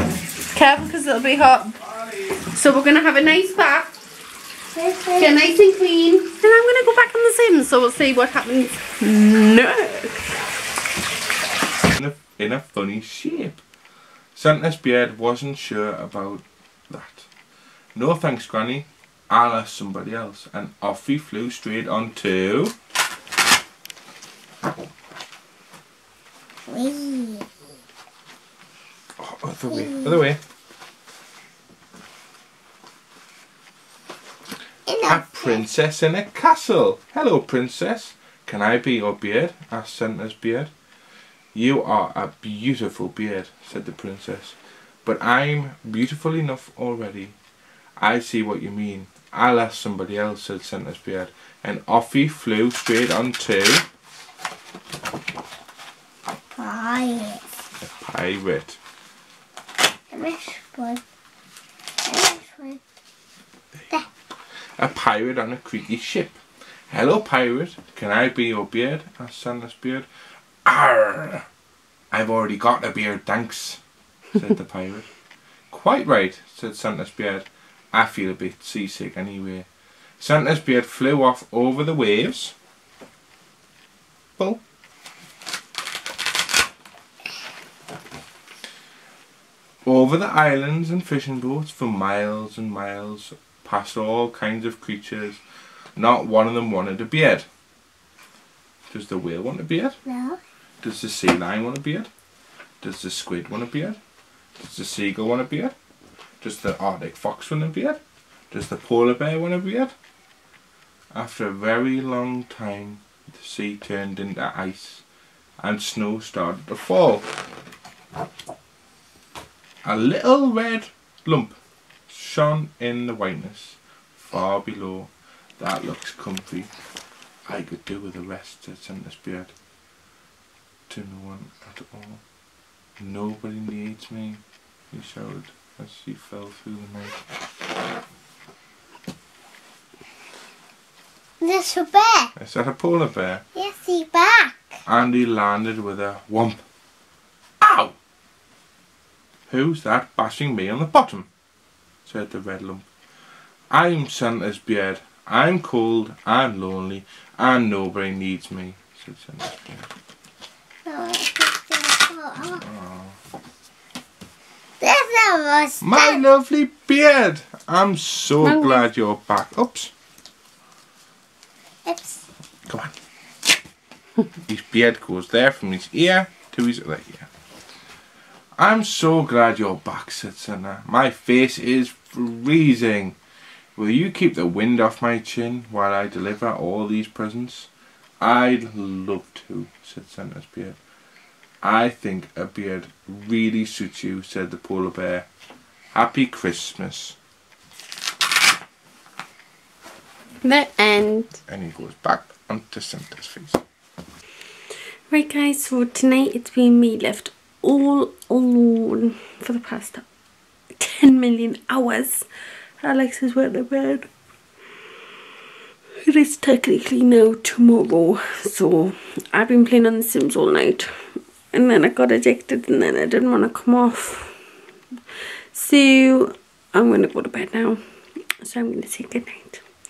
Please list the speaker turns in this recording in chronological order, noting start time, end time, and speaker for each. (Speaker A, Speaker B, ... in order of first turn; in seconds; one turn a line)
Speaker A: 0.5-3.9
Speaker B: 4.7-5.3
Speaker A: 5.2-10.3
Speaker C: 11.9-13.6
Speaker C: 14.3-17.3
Speaker C: 17.9-22.7
Speaker B: 26.7-27.5
Speaker C: 29.2-30.4
Speaker B: 29.7-30.2
Speaker B: 34.9-35.6
Speaker C: 35.0-40.7
Speaker C: 41.5-47.4
Speaker C: 48.0-53.8
Speaker B: 56.5-57.4
Speaker C: 57.8-58.8
Speaker B: 60.1-61.0
Speaker B: 62.0-62.8
Speaker C: 64.8-66.4
Speaker C: 66.9-70.1
Speaker C: 70.6-71.5
Speaker C: 72.1-73.8
Speaker C: 74.3-75.1
Speaker C: 75.7-79.7
Speaker C: 80.2-82.5
Speaker C: 89.8-95.4
Speaker C: 96.0-97.5
Speaker C: 98.9-100.0
Speaker B: 100.1-100.4
Speaker C: 100.8-102.1
Speaker C: 102.8-104.0
Speaker C: 104.6-105.7
Speaker C: 106.4-108.0
Speaker C: 108.5-109.9
Speaker C: 111.1-115.0
Speaker C: 115.6-117.3
Speaker C: 119.8-121.6
Speaker C: 122.1-126.7
Speaker C: 127.5-129.5
Speaker C: 130.9-132.2
Speaker C: 133.0-137.2
Speaker B: 141.4-142.3
Speaker C: 142.3-143.4
Speaker B: 143.5-144.7
Speaker C: 144.8-146.6
Speaker C: 147.6-147.9
Speaker C: 149.5-151.3
Speaker C: 152.0-152.9
Speaker C: 153.7-159.9
Speaker B: 160.8-162.6
Speaker C: 162.6-163.2
Speaker B: 164.8-166.2
Speaker C: 165.8-169.9
Speaker A: 168.4-168.9
Speaker B: 171.8-172.2
Speaker C: 172.7-172.9
Speaker C: 174.4-177.3
Speaker C: 178.6-183.2
Speaker C: 183.8-187.7
Speaker C: 188.2-190.8
Speaker C: 191.6-195.3
Speaker C: 195.9-197.2
Speaker A: 200.4-201.4
Speaker C: 201.5-203.6
Speaker A: 205.1-210.0
Speaker A: 210.8-212.2
Speaker A: 212.8-214.1
Speaker A: 216.0-220.9
Speaker A: 221.5-224.3
Speaker A: 225.5-227.8
Speaker A: 228.4-229.6